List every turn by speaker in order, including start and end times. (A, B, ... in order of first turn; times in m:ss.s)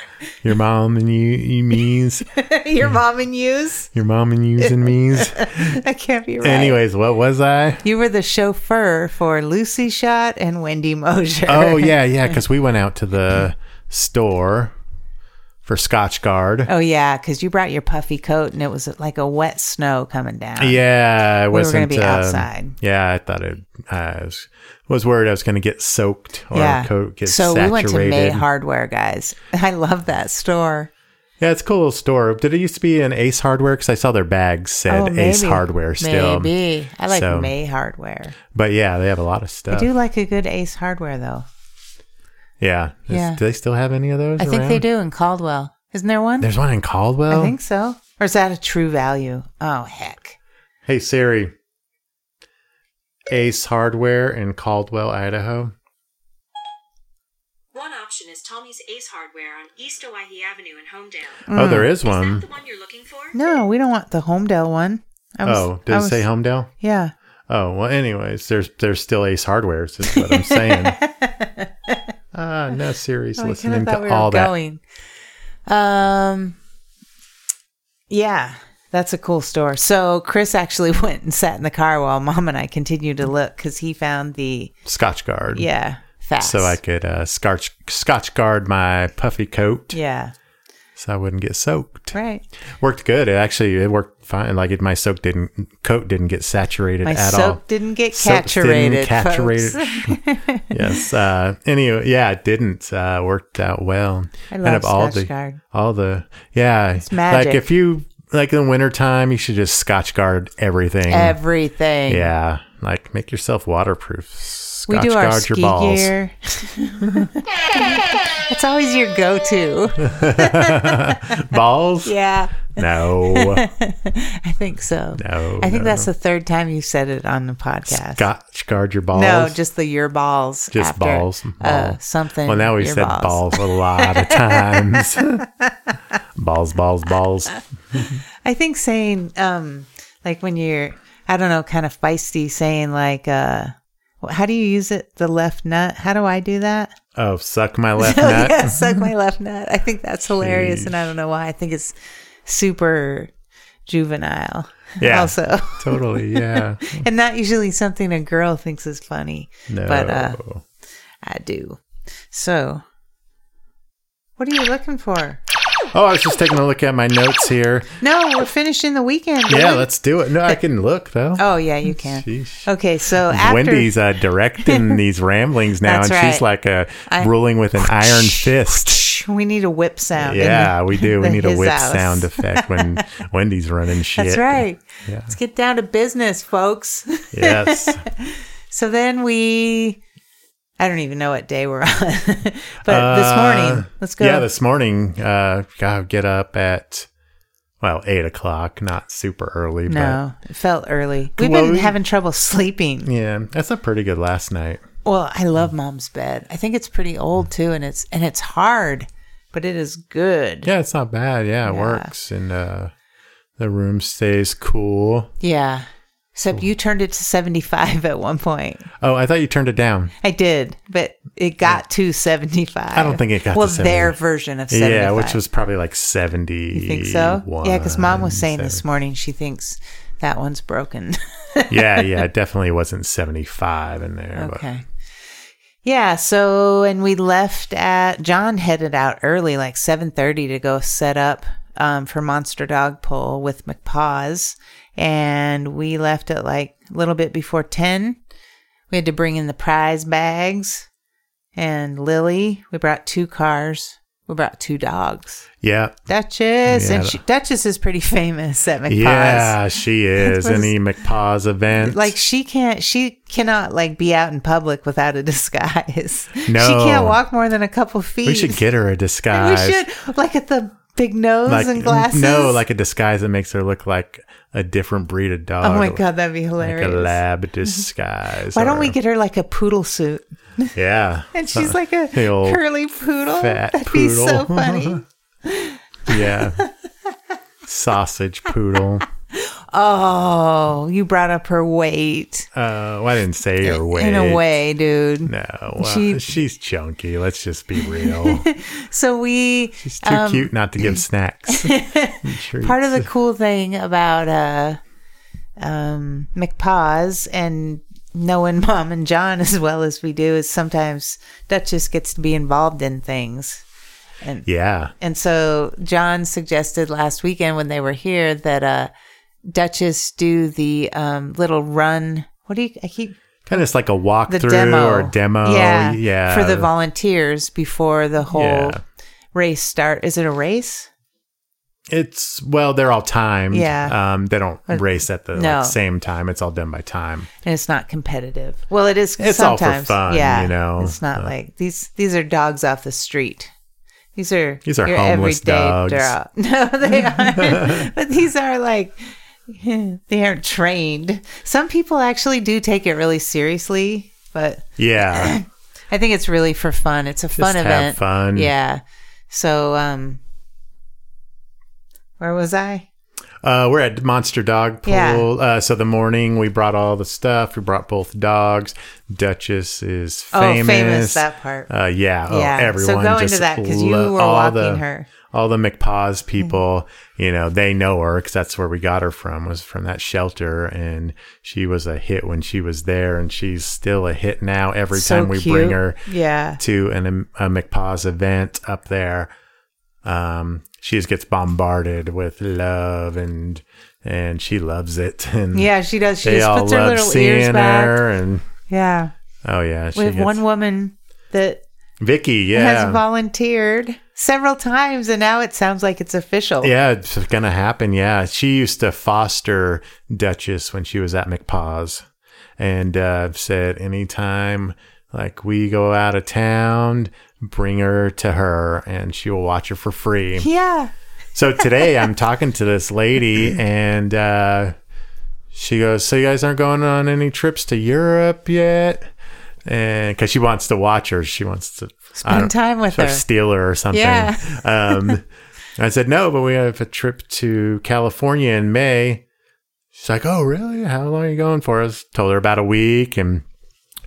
0:00.4-0:02.3 A
0:02.4-0:03.9 B
0:03.9-0:05.8 A
0:04.6-0:06.8 B
0:06.4-0:07.9 A
0:07.8-0:12.4 B
0:11.5-0:14.7 A
0:15.6-0:16.7 A
0:16.7-0:20.8 B
0:20.6-0:28.5 A
0:21.5-0:22.8 B
0:26.5-0:30.9 B
0:31.4-0:36.5 A
0:34.9-0:38.4 B
0:37.1-0:37.5 A
0:38.5-0:39.9 A
0:39.7-0:41.4 B
0:42.6-0:44.8 A
0:43.1-0:43.4 B
0:44.4-0:46.5 B
0:46.4-0:47.6 A
0:47.3-0:50.4 B
0:50.9-0:51.5 A
0:53.3-0:55.8 A
0:57.7-1:01.5 C
1:01.5-1:01.9 B
1:01.5-1:02.5 A
1:02.0-1:03.4 C
1:03.3-1:06.3 B
1:05.4-1:06.7 A
1:06.8-1:07.1 B
1:07.5-1:11.0 A
1:10.1-1:12.0 B
1:12.3-1:14.5 A
1:13.4-1:14.8 B
1:15.7-1:16.6 B
1:18.1-1:24.7 B
1:24.9-1:25.7 A
1:25.5-1:26.8 B
1:26.4-1:30.0 A
1:29.9-1:30.3 B
1:31.0-1:32.2 A
1:32.1-1:32.4 B
1:32.8-1:37.6 A
1:37.0-1:41.1 B
1:38.1-1:40.2 A
1:40.7-1:51.4 A
1:44.5-1:45.6 B
1:47.0-1:47.6 B
1:51.1-1:52.3 B
1:52.1-1:56.1 A
1:54.9-2:01.4 B
2:00.0-2:02.1 A
2:02.0-2:08.3 B
2:02.7-2:03.6 A
2:05.2-2:06.1 A
2:07.9-2:09.6 A
2:09.1-2:15.3 B
2:10.7-2:15.4 A
2:16.4-2:18.2 A
2:18.4-2:27.0 B
2:27.1-2:29.1 A
2:28.0-2:31.9 B
2:30.3-2:31.1 A
2:32.5-2:33.3 B
2:33.9-2:40.4 B
2:35.0-2:37.1 A
2:39.7-2:40.6 A
2:41.2-2:41.8 B
2:42.3-2:42.8 B
2:44.4-2:45.4 B
2:45.9-2:48.0 A
2:48.0-2:49.9 B
2:49.5-2:52.7 A
2:51.4-2:54.0 B
2:53.3-2:59.0 A
2:54.6-2:55.0 B
2:55.8-2:56.5 B
2:57.1-3:03.0 B
3:00.2-3:05.4 A
3:04.2-3:10.0 B
3:07.3-3:08.0 A
3:10.8-3:14.5 B
3:12.9-3:17.1 A
3:17.8-3:20.2 A
3:19.9-3:23.1 B
3:21.4-3:22.0 A
3:23.0-3:24.8 A
3:25.0-3:30.7 B
3:30.6-3:32.9 A
3:31.7-3:32.1 B
3:33.6-3:35.3 A
3:35.4-3:38.9 B
3:39.0-3:40.1 A
3:40.2-3:45.4 B
3:42.9-3:44.2 A
3:44.7-3:48.8 A
3:46.7-3:52.1 B
3:51.7-3:54.6 A
3:54.4-3:54.8 B
3:55.8-4:08.2 B
4:08.9-4:10.9 B
4:11.6-4:15.5 B
4:15.6-4:16.0 A
4:16.1-4:19.6 B
4:16.6-4:17.2 A
4:18.9-4:22.1 A
4:20.2-4:20.7 B
4:21.8-4:28.6 B
4:26.4-4:27.2 A
4:28.2-4:29.8 A
4:29.3-4:32.6 B
4:31.5-4:36.0 A
4:35.6-4:37.2 B
4:36.6-4:39.0 A
4:38.5-4:40.7 B
4:40.8-4:42.6 A
4:41.3-4:46.7 B
4:43.4-4:45.0 A
4:46.1-4:46.6 A
4:47.6-4:49.1 A
4:49.3-4:52.5 B
4:52.5-4:54.4 A
4:53.6-4:56.3 B
4:55.2-4:58.5 A
4:57.9-5:01.0 B
4:59.8-5:03.1 A
5:01.5-5:04.8 B
5:05.6-5:13.6 B
5:14.5-5:14.9 A
5:15.0-5:18.9 B
5:19.5-5:23.2 B
5:23.5-5:26.7 A
5:24.3-5:28.8 B
5:28.3-5:28.8 A
5:29.3-5:30.9 B
5:31.9-5:37.3 A
5:33.5-5:34.0 B
5:34.7-5:35.8 B
5:37.4-5:43.5 B
5:39.2-5:41.3 A
5:44.2-6:00.2 B
5:44.6-5:46.1 A
5:47.1-5:47.9 A
5:54.8-5:55.4 A
5:57.4-5:58.5 A
6:02.2-6:02.9 B
6:03.4-6:26.0 A
6:04.9-6:05.3 B
6:10.3-6:11.7 B
6:12.3-6:15.1 B
6:24.9-6:26.6 B
6:26.6-6:29.3 A
6:30.0-6:35.7 A
6:35.5-6:38.0 B
6:36.2-6:38.5 A
6:38.7-6:39.1 B
6:39.4-6:40.4 A
6:40.0-6:41.6 B
6:42.0-6:43.0 A
6:42.5-6:46.7 B
6:46.6-6:52.0 A
6:52.6-7:00.5 A
7:00.4-7:00.9 B
7:01.4-7:04.8 A
7:05.5-7:09.1 A
7:09.6-7:15.2 A
7:12.2-7:13.2 B
7:13.9-7:15.2 B
7:15.8-7:19.2 A
7:19.9-7:23.4 A